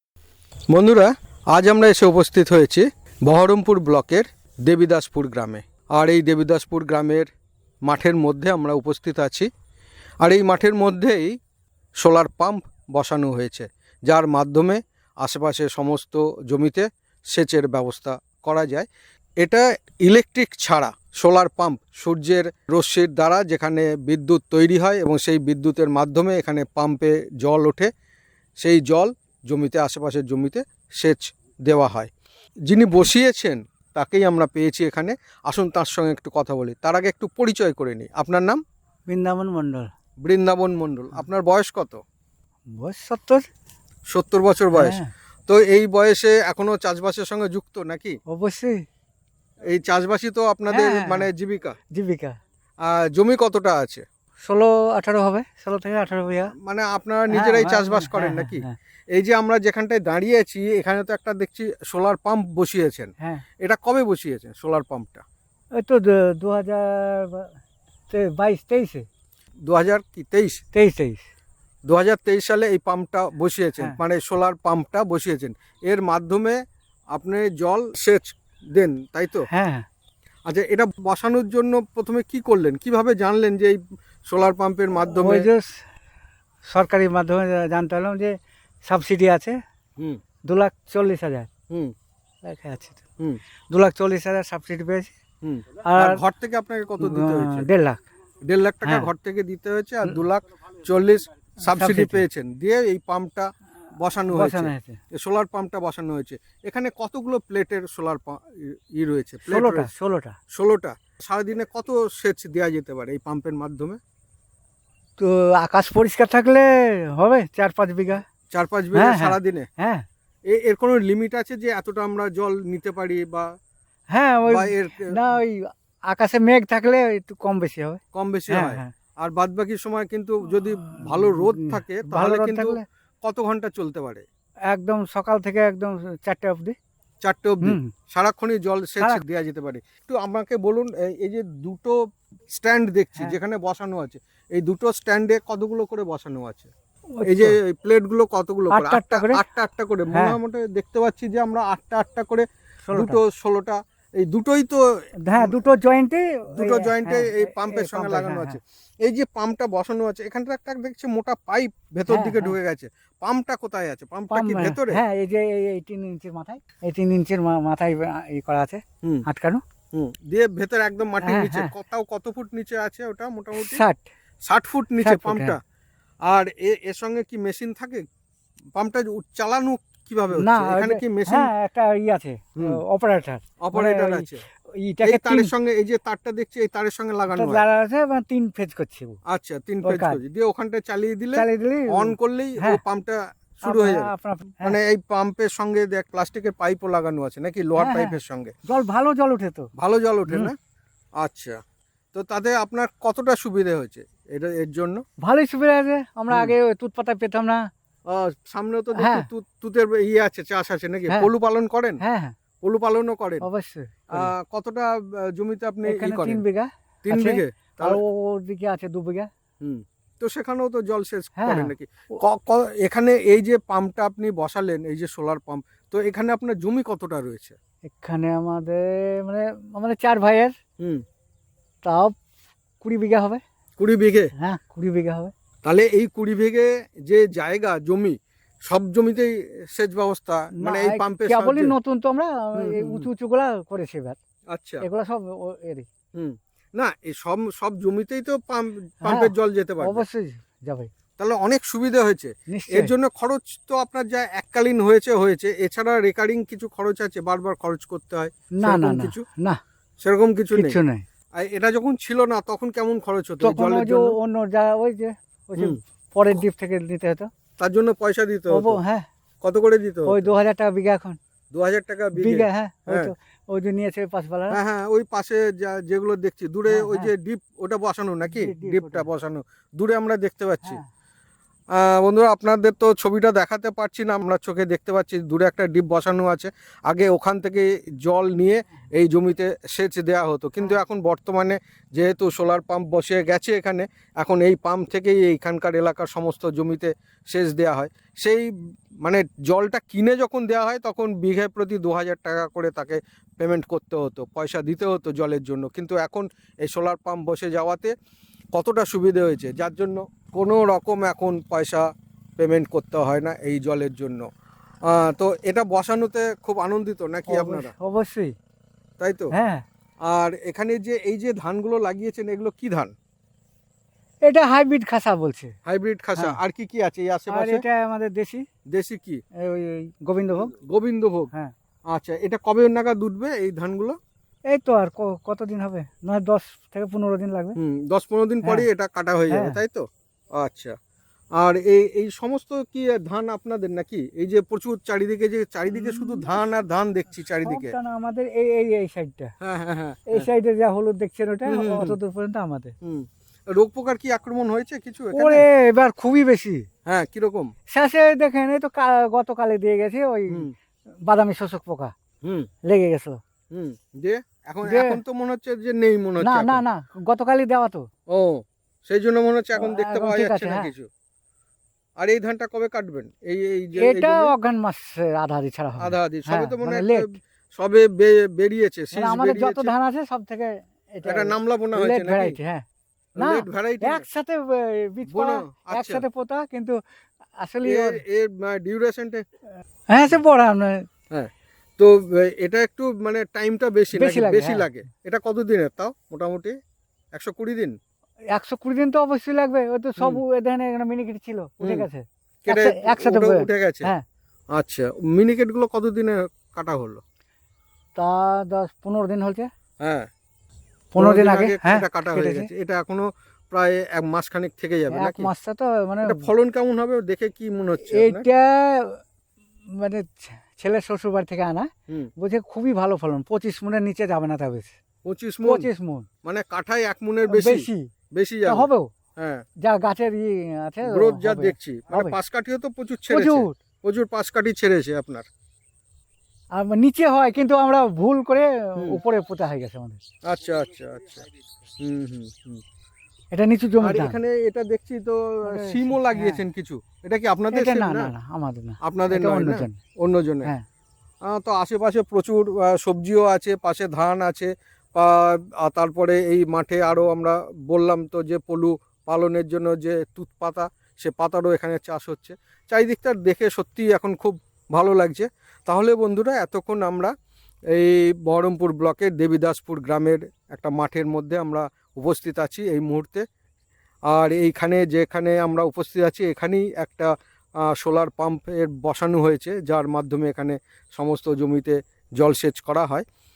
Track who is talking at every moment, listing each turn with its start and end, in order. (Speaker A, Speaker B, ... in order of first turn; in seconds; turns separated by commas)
Speaker A: 0.7-7.3, Speaker A: 7.8-9.5, Speaker A: 10.2-11.3, Speaker A: 12.0-18.9, Speaker A: 19.4-27.9, Speaker A: 28.6-32.1, Speaker A: 32.7-38.6, Speaker B: 39.1-39.9, Speaker A: 40.2-42.0, Speaker B: 42.7-43.5, Speaker A: 44.1-45.0, Speaker B: 44.7-45.1, Speaker A: 45.5-48.2, Speaker B: 48.3-48.8, Speaker A: 49.7-51.8, Speaker B: 50.7-51.3, Speaker B: 51.9-52.4, Speaker A: 52.9-54.0, Speaker B: 54.5-56.5, Speaker A: 56.6-65.2, Speaker B: 57.3-58.8, Speaker B: 65.8-67.5, Speaker B: 68.1-69.0, Speaker A: 69.7-70.6, Speaker B: 70.7-71.2, Speaker A: 71.9-76.6, Speaker A: 77.1-79.5, Speaker B: 79.5-79.8, Speaker A: 80.5-85.5, Speaker B: 85.1-85.7, Speaker B: 86.7-89.6, Speaker B: 90.5-91.5, Speaker B: 92.4-93.0, Speaker B: 93.7-95.1, Speaker A: 95.4-97.7, Speaker B: 95.9-96.2, Speaker B: 97.0-98.0, Speaker A: 98.4-109.9, Speaker B: 98.8-99.1, Speaker B: 101.6-102.2, Speaker B: 104.3-105.0, Speaker B: 109.5-110.3, Speaker A: 110.5-114.0, Speaker B: 115.2-118.2, Speaker A: 118.5-119.7, Speaker B: 118.9-120.0, Speaker A: 120.5-123.5, Speaker B: 124.1-128.9, Speaker A: 124.5-125.1, Speaker A: 128.1-134.2, Speaker B: 131.0-132.8, Speaker B: 134.7-136.8, Speaker A: 137.2-142.0, Speaker B: 137.6-137.9, Speaker A: 142.5-146.7, Speaker B: 147.1-147.6, Speaker A: 147.2-154.8, Speaker B: 148.7-149.4, Speaker B: 150.1-150.4, Speaker B: 152.9-153.2, Speaker B: 155.2-158.6, Speaker A: 155.3-155.6, Speaker A: 156.6-165.0, Speaker B: 162.1-162.6, Speaker B: 164.3-169.6, Speaker A: 169.9-173.8, Speaker B: 171.2-171.7, Speaker B: 173.6-174.0, Speaker A: 174.5-175.6, Speaker B: 175.0-175.6, Speaker A: 176.3-178.1, Speaker A: 178.7-181.5, Speaker B: 180.4-185.5, Speaker A: 183.6-184.4, Speaker A: 185.0-187.6, Speaker B: 187.3-189.2, Speaker A: 189.3-194.1, Speaker B: 189.8-190.2, Speaker B: 191.3-192.8, Speaker B: 193.6-194.8, Speaker A: 194.6-198.5, Speaker B: 197.8-198.2, Speaker B: 198.7-199.7, Speaker A: 199.8-200.6, Speaker A: 201.2-201.6, Speaker A: 202.1-205.0, Speaker B: 205.2-207.6, Speaker A: 208.1-212.0, Speaker B: 208.9-209.3, Speaker B: 212.0-212.3, Speaker A: 212.6-213.4, Speaker B: 213.4-214.3, Speaker A: 214.1-216.4, Speaker B: 215.8-219.3, Speaker A: 217.0-218.0, Speaker A: 219.6-227.6, Speaker B: 221.4-222.2, Speaker B: 227.9-230.6, Speaker A: 230.8-231.0, Speaker B: 231.8-232.1, Speaker B: 232.8-233.4, Speaker A: 233.8-234.3, Speaker B: 234.4-235.3, Speaker A: 235.6-238.2, Speaker A: 238.7-241.8, Speaker B: 240.5-244.2, Speaker A: 242.6-243.1, Speaker A: 244.5-244.8, Speaker B: 244.8-245.9, Speaker A: 246.2-250.0, Speaker B: 249.0-250.9, Speaker A: 251.2-259.2, Speaker B: 252.5-252.9, Speaker B: 258.5-259.6, Speaker A: 260.0-260.8, Speaker B: 260.5-261.0, Speaker A: 261.4-264.1, Speaker B: 263.4-267.3, Speaker A: 267.6-268.8, Speaker B: 268.5-269.1, Speaker A: 269.4-270.3, Speaker B: 270.1-271.2, Speaker A: 271.5-273.1, Speaker B: 272.1-274.6, Speaker A: 274.5-280.8, Speaker B: 276.7-277.1, Speaker B: 278.3-279.1, Speaker A: 281.7-298.5, Speaker A: 299.0-307.9, Speaker A: 308.5-311.9, Speaker A: 312.4-314.3, Speaker A: 314.9-317.7, Speaker B: 317.3-318.3, Speaker A: 319.0-319.3, Speaker B: 319.3-319.6, Speaker A: 320.1-322.9, Speaker B: 324.2-325.5, Speaker A: 325.7-327.6, Speaker B: 327.3-328.4, Speaker A: 328.7-329.2, Speaker B: 329.4-330.5, Speaker A: 330.5-331.3, Speaker A: 331.9-334.0, Speaker B: 334.5-337.6, Speaker A: 337.6-339.8, Speaker B: 339.3-339.6, Speaker A: 340.4-340.8, Speaker A: 341.4-347.7, Speaker B: 345.7-346.3, Speaker B: 347.4-349.3, Speaker A: 349.4-350.3, Speaker B: 350.1-352.7, Speaker A: 351.5-352.0, Speaker A: 352.8-355.4, Speaker B: 355.1-356.7, Speaker A: 356.9-357.5, Speaker B: 357.7-360.5, Speaker B: 361.0-361.9, Speaker A: 362.2-362.5, Speaker B: 362.7-363.2, Speaker A: 363.5-366.6, Speaker B: 364.6-365.0, Speaker B: 366.2-367.9, Speaker A: 368.1-370.9, Speaker B: 369.6-370.7, Speaker A: 372.0-374.3, Speaker B: 373.8-377.1, Speaker A: 375.8-379.7, Speaker B: 378.9-382.6, Speaker A: 381.0-382.4, Speaker A: 383.2-384.0, Speaker B: 383.2-386.8, Speaker A: 385.0-386.0, Speaker B: 387.4-388.0, Speaker A: 387.6-389.2, Speaker B: 389.9-390.9, Speaker A: 391.1-396.5, Speaker B: 393.9-394.7, Speaker A: 397.1-397.8, Speaker B: 398.3-404.0, Speaker A: 401.6-401.9, Speaker A: 402.4-403.9, Speaker A: 404.5-407.0, Speaker B: 407.9-409.5, Speaker A: 409.8-410.1, Speaker B: 410.9-412.5, Speaker A: 411.0-415.3, Speaker B: 414.9-416.3, Speaker A: 416.0-418.2, Speaker B: 417.8-419.0, Speaker B: 419.8-424.7, Speaker A: 425.0-425.7, Speaker B: 425.4-426.1, Speaker A: 426.2-429.4, Speaker B: 427.3-427.9, Speaker B: 428.4-428.9, Speaker B: 429.6-432.1, Speaker A: 430.8-435.2, Speaker B: 433.1-433.6, Speaker B: 436.5-440.0, Speaker A: 440.2-441.2, Speaker A: 441.8-442.6, Speaker B: 443.3-444.2, Speaker A: 443.8-448.1, Speaker B: 445.4-446.4, Speaker B: 447.5-449.8, Speaker A: 448.8-450.5, Speaker A: 451.2-467.1, Speaker A: 467.7-473.2, Speaker A: 474.1-477.1, Speaker A: 477.6-483.0